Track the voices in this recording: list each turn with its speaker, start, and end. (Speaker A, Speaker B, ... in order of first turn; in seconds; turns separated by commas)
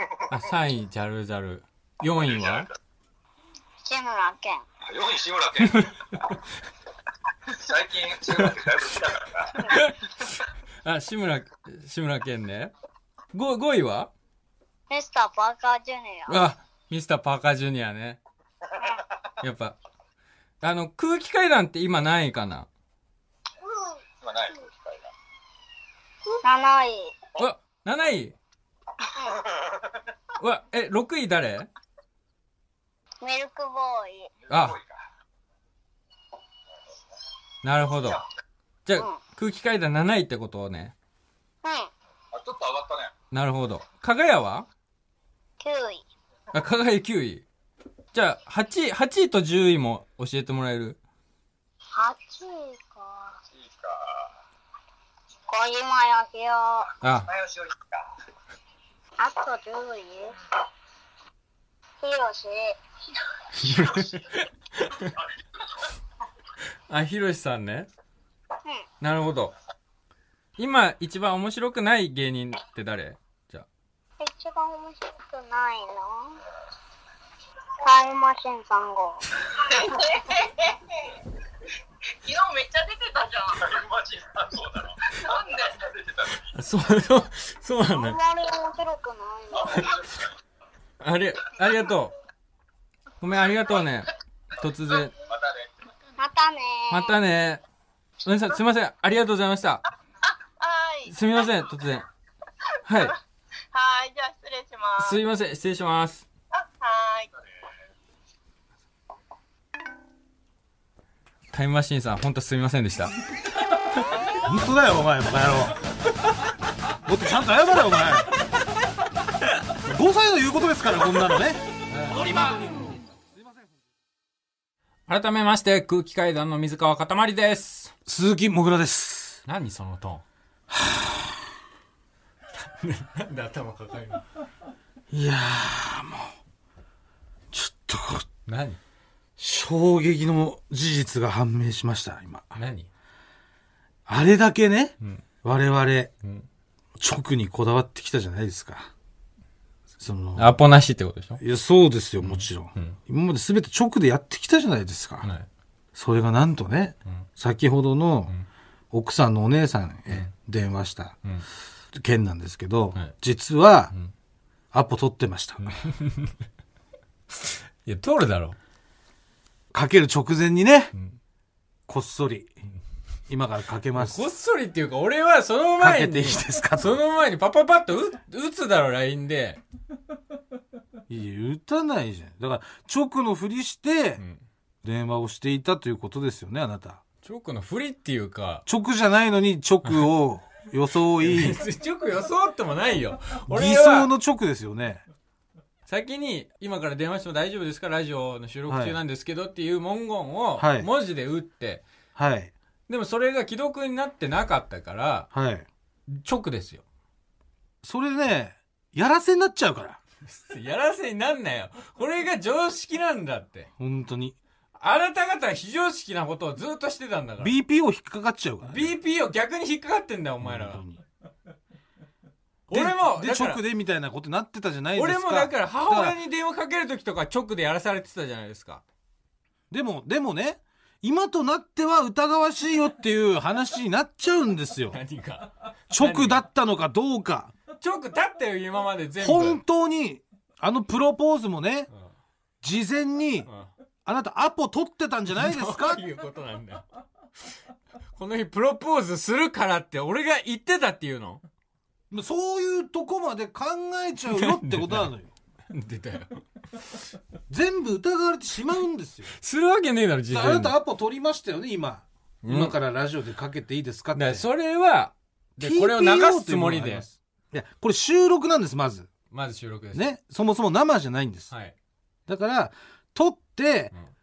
Speaker A: 0.3-2.7, Speaker B: 2.3-2.6, Speaker C: 3.8-4.6, Speaker B: 4.9-5.9, Speaker B: 7.5-9.7, Speaker A: 9.5-12.7, Speaker A: 13.3-14.1, Speaker C: 14.9-16.4, Speaker A: 16.3-18.2, Speaker A: 19.4-19.8, Speaker A: 20.6-22.7, Speaker B: 24.2-25.1, Speaker C: 26.4-27.1, Speaker A: 27.4-28.4, Speaker B: 29.4-29.9, Speaker A: 30.4-31.7, Speaker C: 33.2-34.3, Speaker B: 34.5-34.9, Speaker A: 34.5-34.8, Speaker A: 37.6-38.2, Speaker A: 38.9-40.9, Speaker C: 41.6-41.9, Speaker B: 42.3-43.1, Speaker A: 43.3-44.7, Speaker C: 45.6-46.0, Speaker A: 46.5-47.5, Speaker A: 48.1-51.0, Speaker C: 51.9-53.4, Speaker B: 53.6-54.1, Speaker C: 55.5-56.9, Speaker A: 57.0-57.3, Speaker B: 57.3-58.0, Speaker C: 59.2-60.3, Speaker C: 62.0-62.8, Speaker A: 63.6-65.2, Speaker A: 66.9-67.9, Speaker A: 69.0-69.5, Speaker A: 70.6-73.7, Speaker C: 74.2-76.4, Speaker C: 77.8-79.4, Speaker D: 79.6-81.1, Speaker D: 82.2-83.7, Speaker B: 83.6-85.0, Speaker D: 85.2-85.8, Speaker B: 85.8-86.3, Speaker A: 86.3-88.2, Speaker C: 87.9-90.0, Speaker A: 91.0-92.1, Speaker A: 93.2-95.1, Speaker B: 95.3-95.7, Speaker C: 96.2-97.2, Speaker A: 96.9-97.6, Speaker A: 98.2-99.8, Speaker D: 100.6-101.2, Speaker A: 101.1-102.0, Speaker A: 102.8-103.1, Speaker D: 103.7-105.2, Speaker A: 105.0-106.2, Speaker D: 106.5-107.3, Speaker A: 111.5-113.1, Speaker E: 114.4-115.8, Speaker E: 117.0-118.3, Speaker E: 119.8-123.8, Speaker A: 122.0-122.6, Speaker A: 125.1-127.9, Speaker E: 128.1-129.4, Speaker A: 129.4-130.2, Speaker E: 130.7-131.5, Speaker A: 132.6-134.2, Speaker E: 135.1-136.3, Speaker E: 137.5-138.2, Speaker A: 138.4-138.8, Speaker E: 139.4-142.6, Speaker A: 142.5-142.9, Speaker E: 144.1-146.1, Speaker E: 147.0-148.9, Speaker E: 150.0-150.5, Speaker A: 150.4-151.4, Speaker E: 151.4-155.3, Speaker A: 152.2-152.9, Speaker E: 155.9-158.3, Speaker E: 158.9-161.2, Speaker E: 161.9-163.9, Speaker E: 164.7-165.7, Speaker A: 165.6-166.3, Speaker A: 167.4-168.6, Speaker E: 169.7-170.9, Speaker E: 171.9-172.5, Speaker E: 173.3-174.2, Speaker A: 173.9-179.6, Speaker E: 175.8-177.0, Speaker E: 181.1-184.2, Speaker E: 184.8-187.0, Speaker A: 187.2-188.6, Speaker E: 188.7-191.6, Speaker A: 191.2-194.1, Speaker E: 193.5-195.0, Speaker A: 195.9-201.8, Speaker E: 198.7-199.0, Speaker E: 200.6-200.9, Speaker E: 202.2-202.5, Speaker A: 202.9-205.3, Speaker E: 205.3-205.7, Speaker A: 206.1-206.8, Speaker E: 207.8-210.0, Speaker A: 210.2-213.7, Speaker E: 213.8-214.4, Speaker A: 214.8-217.5, Speaker E: 217.4-218.9, Speaker A: 218.6-220.8, Speaker E: 220.4-221.0, Speaker A: 222.7-223.6, Speaker E: 222.7-226.2, Speaker A: 224.9-228.8, Speaker E: 229.7-235.0, Speaker A: 234.9-236.4, Speaker E: 235.9-237.5, Speaker A: 237.8-239.6, Speaker E: 239.2-241.9, Speaker E: 242.6-243.5, Speaker E: 244.0-246.0, Speaker A: 245.3-246.8, Speaker A: 248.1-251.4, Speaker E: 252.1-255.3, Speaker A: 254.3-255.1, Speaker A: 255.7-256.4, Speaker E: 257.5-259.3, Speaker A: 259.3-260.7, Speaker E: 260.3-264.4, Speaker A: 262.4-262.8, Speaker A: 264.1-267.0, Speaker E: 265.6-269.1, Speaker A: 269.3-270.1, Speaker E: 269.9-271.5, Speaker E: 272.3-273.9